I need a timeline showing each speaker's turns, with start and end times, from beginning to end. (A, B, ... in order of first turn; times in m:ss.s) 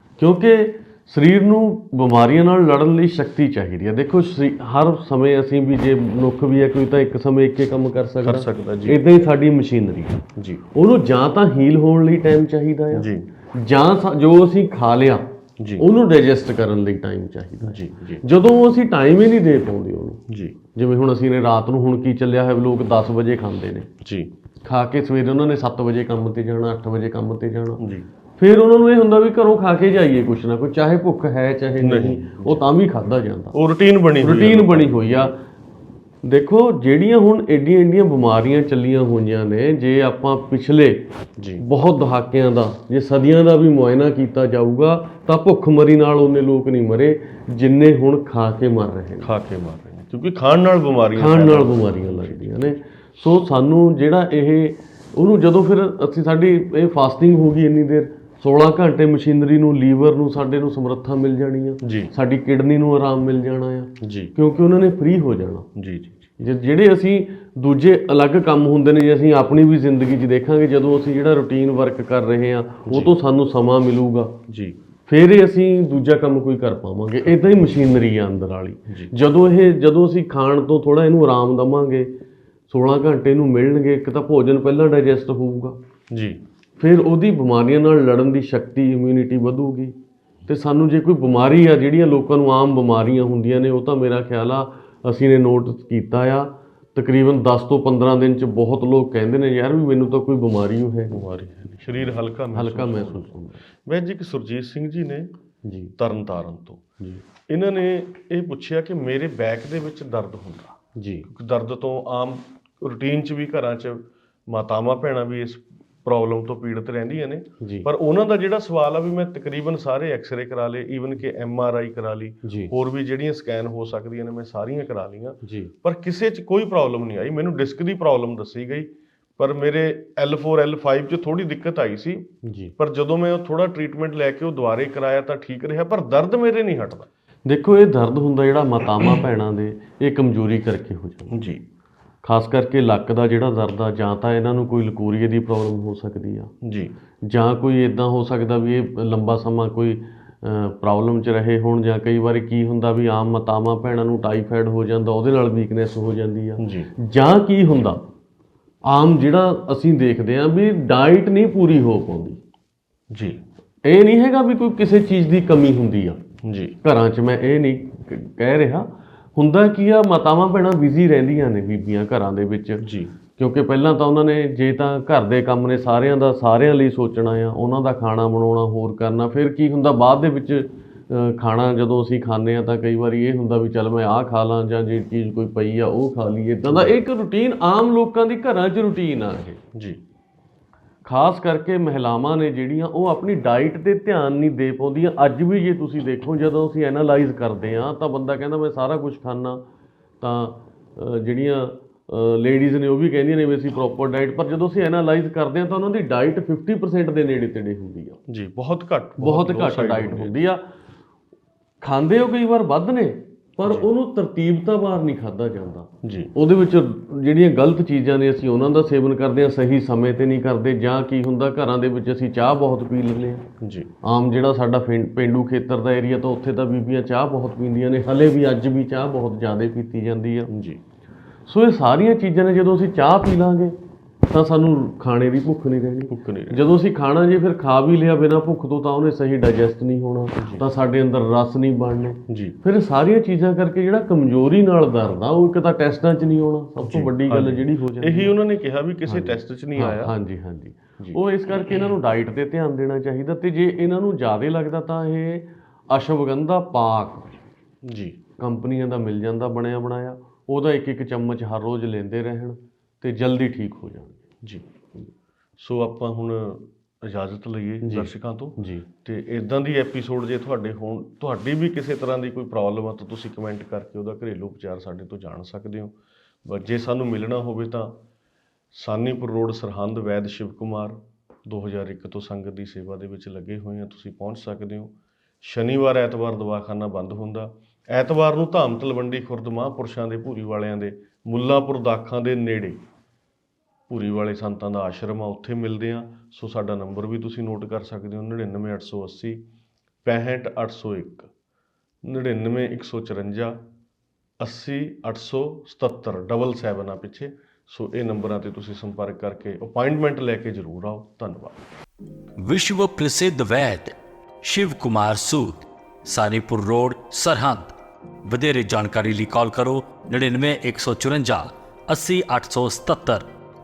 0:00.2-0:10.2 A
0:08.2-0:09.0 B
0:10.4-0:10.6 B
0:10.8-0:15.3 A
0:12.9-0:13.3 B
0:15.8-0:20.2 A
0:17.6-0:18.2 B
0:20.3-0:20.6 B
0:20.8-0:23.9 A
0:24.0-0:24.3 B
0:24.7-0:27.8 A
0:27.8-0:28.1 B
0:28.4-0:33.6 A
0:31.8-0:32.7 B
0:33.5-0:35.3 B
0:34.2-0:35.4 A
0:36.2-0:41.1 A
0:41.4-0:41.6 B
0:41.6-0:49.3 A
0:49.2-0:52.6 B
0:51.2-1:05.7 A
1:01.8-1:02.1 B
1:04.0-1:04.3 B
1:05.8-1:06.3 B
1:06.4-1:14.4 A
1:12.9-1:13.1 B
1:14.5-1:14.8 B
1:15.1-1:22.1 A
1:22.7-1:25.8 A
1:26.1-1:26.4 B
1:26.8-1:30.0 A
1:30.5-1:41.2 A
1:41.1-1:43.3 B
1:42.5-1:43.6 A
1:43.9-1:45.3 B
1:45.6-1:45.9 A
1:46.0-1:46.8 B
1:47.5-2:17.1 B
1:51.0-1:51.3 A
1:57.6-1:57.9 A
2:02.4-2:02.7 A
2:05.4-2:05.7 A
2:12.4-2:12.7 A
2:17.5-2:21.3 A
2:21.3-2:21.6 B
2:22.2-2:26.5 A
2:26.6-2:27.0 B
2:27.3-2:38.0 A
2:36.6-2:36.9 B
2:38.9-2:42.4 A
2:43.1-2:43.4 B
2:43.9-2:46.2 A
2:46.4-2:46.8 B
2:46.8-2:52.8 A
2:52.8-2:53.1 B
2:53.4-3:09.6 A
3:09.8-3:10.0 B
3:11.0-3:19.6 A
3:20.2-3:28.2 A
3:28.3-3:30.4 B
3:29.2-3:30.6 A
3:31.8-3:43.4 A
3:36.0-3:36.3 B
3:43.6-3:43.9 B
3:44.0-3:50.5 A
3:50.5-3:50.8 B
3:51.5-3:53.8 A
3:54.3-4:08.4 A
3:56.1-3:56.6 B
4:00.4-4:00.6 B
4:02.3-4:02.6 B
4:06.9-4:10.1 B
4:09.1-4:17.4 A
4:17.8-4:18.2 B
4:18.4-4:24.2 A
4:25.6-4:35.9 B
4:27.8-4:28.9 A
4:36.4-4:38.0 B
4:38.7-4:52.8 B
4:53.9-4:59.4 B
5:00.0-5:01.3 B
5:02.0-5:03.6 B
5:04.4-5:11.6 B
5:12.4-5:17.8 C
5:18.3-5:23.3 C